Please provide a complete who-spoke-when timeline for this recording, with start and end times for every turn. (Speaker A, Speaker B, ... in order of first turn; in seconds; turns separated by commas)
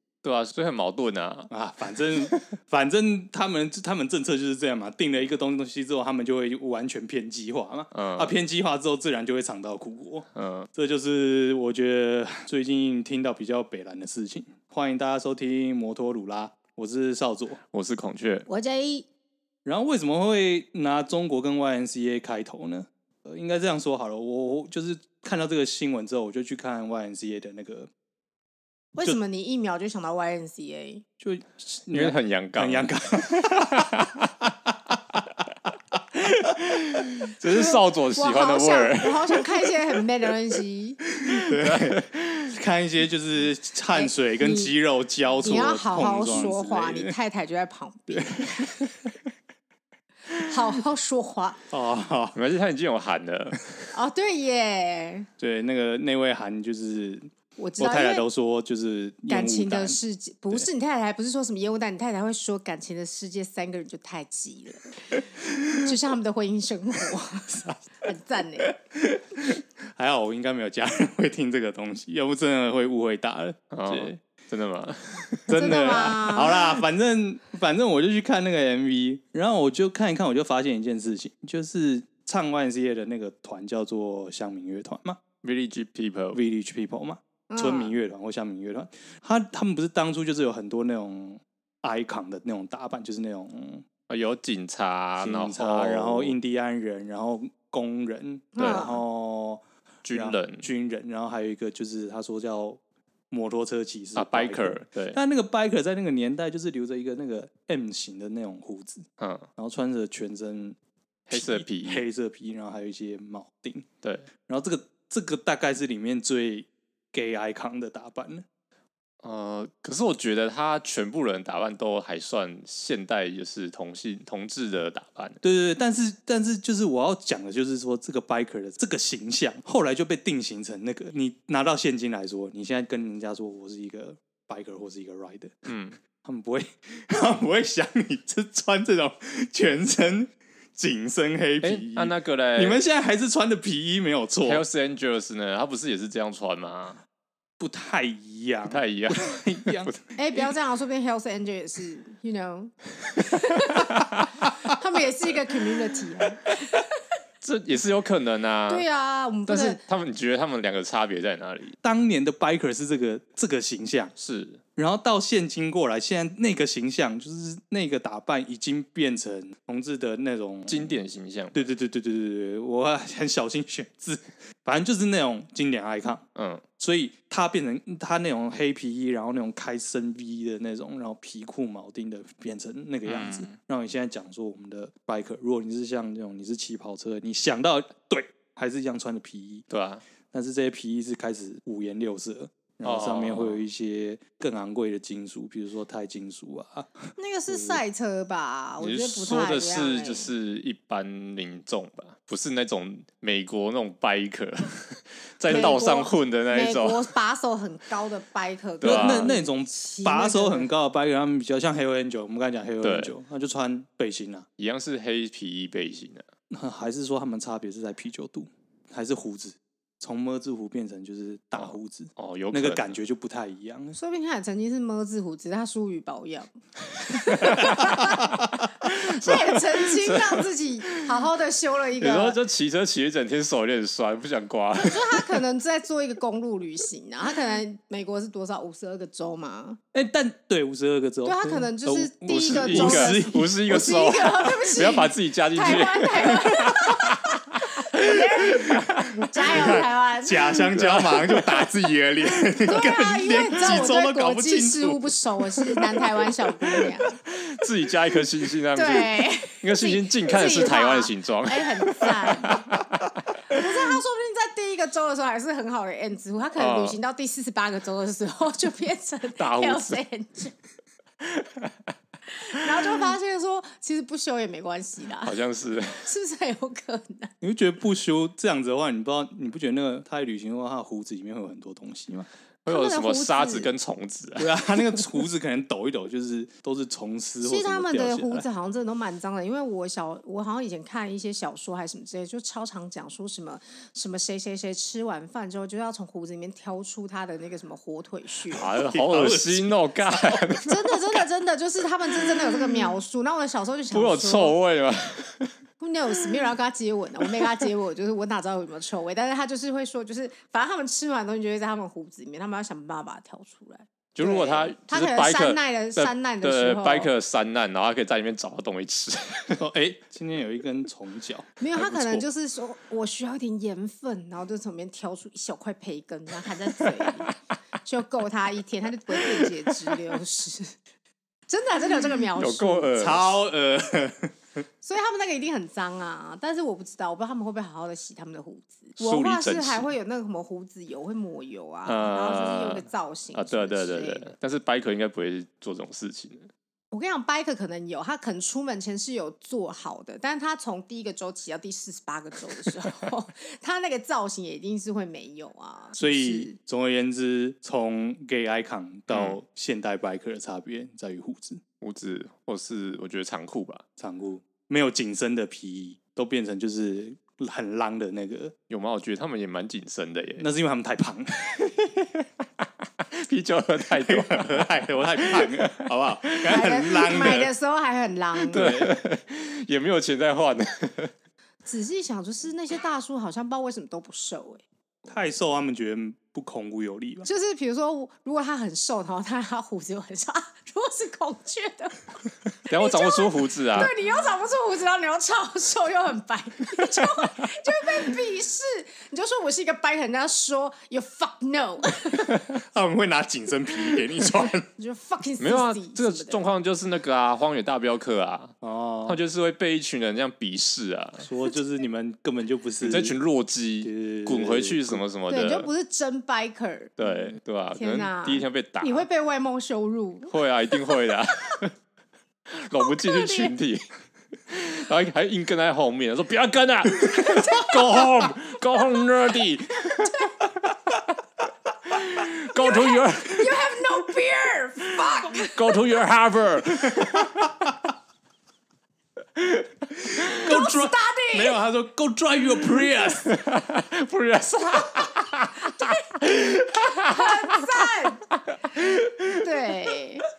Speaker A: 0.2-1.5, Speaker B: 1.5-17.6, Speaker A: 7.9-8.3, Speaker A: 10.3-10.7, Speaker A: 17.7-18.5, Speaker C: 18.5-19.1, Speaker B: 19.6-27.9, Speaker C: 28.9-31.0, Speaker B: 31.2-35.2, Speaker A: 31.9-34.3, Speaker A: 36.5-39.4, Speaker C: 37.5-41.0, Speaker B: 41.1-47.2, Speaker A: 41.4-42.4, Speaker C: 43.9-44.7, Speaker C: 45.4-48.9, Speaker B: 48.1-48.9, Speaker C: 50.4-51.6, Speaker B: 51.7-52.4, Speaker A: 52.3-53.9, Speaker C: 53.9-55.3, Speaker B: 55.4-60.0, Speaker C: 57.6-58.2, Speaker C: 59.3-68.8, Speaker B: 67.1-67.8, Speaker B: 68.6-74.2, Speaker A: 73.7-75.5, Speaker B: 75.5-85.2, Speaker C: 75.5-76.6, Speaker A: 85.4-86.4, Speaker B: 86.3-93.8, Speaker C: 87.5-87.9, Speaker A: 94.1-96.4, Speaker B: 95.2-110.8, Speaker C: 98.6-99.0, Speaker A: 98.6-98.9, Speaker A: 100.0-100.7, Speaker A: 104.2-105.2, Speaker A: 109.2-109.5, Speaker A: 111.3-112.0, Speaker B: 111.3-113.9, Speaker A: 114.0-114.3, Speaker B: 114.5-118.5, Speaker A: 119.2-125.4, Speaker B: 125.4-135.6, Speaker A: 135.7-136.0, Speaker B: 136.2-144.7, Speaker A: 141.6-142.8, Speaker A: 144.4-147.0, Speaker B: 147.6-149.9, Speaker A: 148.7-150.0, Speaker C: 150.2-157.0, Speaker A: 153.9-154.3, Speaker A: 157.4-158.9, Speaker C: 158.7-159.8, Speaker A: 159.5-161.8, Speaker B: 161.8-164.1, Speaker A: 164.2-164.6, Speaker B: 164.8-170.9, Speaker A: 170.7-171.7, Speaker B: 171.5-176.3, Speaker A: 176.3-176.7, Speaker B: 176.8-189.7, Speaker A: 183.1-183.5, Speaker A: 189.7-190.0, Speaker B: 190.3-197.8, Speaker A: 192.8-193.6, Speaker C: 197.2-200.3, Speaker A: 198.8-207.1, Speaker C: 205.5-210.7, Speaker A: 208.8-209.3, Speaker B: 208.8-214.5, Speaker A: 212.8-213.1, Speaker A: 214.6-216.3, Speaker B: 216.5-224.0, Speaker A: 221.6-222.9, Speaker C: 223.9-232.4, Speaker A: 227.2-227.8, Speaker A: 228.8-231.0, Speaker A: 232.0-235.4, Speaker C: 234.8-239.8, Speaker B: 239.9-243.6, Speaker C: 241.2-250.6, Speaker A: 242.3-249.8, Speaker B: 249.5-256.8, Speaker A: 250.7-251.7, Speaker C: 252.7-257.2, Speaker A: 257.3-263.7, Speaker C: 258.7-262.6, Speaker C: 263.5-270.6, Speaker A: 266.6-267.0, Speaker A: 269.4-270.0, Speaker A: 271.2-271.9, Speaker C: 272.3-275.4, Speaker A: 275.2-276.1, Speaker C: 276.0-277.3, Speaker B: 277.4-282.3, Speaker A: 282.7-285.0, Speaker C: 282.7-283.7, Speaker B: 284.4-288.5, Speaker C: 287.4-298.7, Speaker A: 298.5-301.2, Speaker B: 298.7-300.6, Speaker C: 300.6-304.6, Speaker A: 302.2-302.9, Speaker A: 303.9-305.6, Speaker C: 305.8-317.1, Speaker A: 307.2-307.7, Speaker A: 314.2-319.6, Speaker B: 319.6-322.2, Speaker C: 321.6-330.8, Speaker A: 329.2-329.5, Speaker C: 331.5-333.0, Speaker A: 332.4-333.3, Speaker B: 333.0-334.3, Speaker C: 334.8-344.3, Speaker A: 339.0-339.9, Speaker A: 341.9-346.5, Speaker C: 346.9-356.5, Speaker B: 356.0-361.6, Speaker A: 359.1-359.4, Speaker A: 361.8-363.8, Speaker B: 364.0-368.5, Speaker A: 368.7-370.5, Speaker B: 370.4-371.8, Speaker A: 372.0-375.9, Speaker B: 374.0-377.5, Speaker C: 376.5-378.8, Speaker A: 378.4-381.1, Speaker B: 378.5-378.9, Speaker C: 381.6-384.6, Speaker B: 385.1-387.3, Speaker C: 387.3-402.4, Speaker A: 392.7-393.9, Speaker B: 402.5-404.7, Speaker C: 404.8-406.5, Speaker A: 405.4-408.6, Speaker B: 408.6-409.2, Speaker A: 409.1-411.3, Speaker B: 411.2-413.2, Speaker A: 412.8-415.7, Speaker B: 413.8-415.0, Speaker C: 415.3-417.0, Speaker A: 417.0-419.1, Speaker C: 417.8-420.4, Speaker A: 420.3-421.7, Speaker A: 422.5-423.9, Speaker C: 422.8-423.6, Speaker A: 424.5-430.7, Speaker C: 427.1-428.1, Speaker C: 430.0-430.4, Speaker A: 431.9-433.5, Speaker C: 432.4-435.9, Speaker A: 435.5-437.4, Speaker B: 437.1-437.7, Speaker A: 439.4-440.2, Speaker B: 440.1-443.4, Speaker C: 440.3-441.6, Speaker A: 443.3-447.9, Speaker C: 445.8-446.1, Speaker C: 446.8-448.3, Speaker A: 448.4-449.4, Speaker C: 449.3-450.3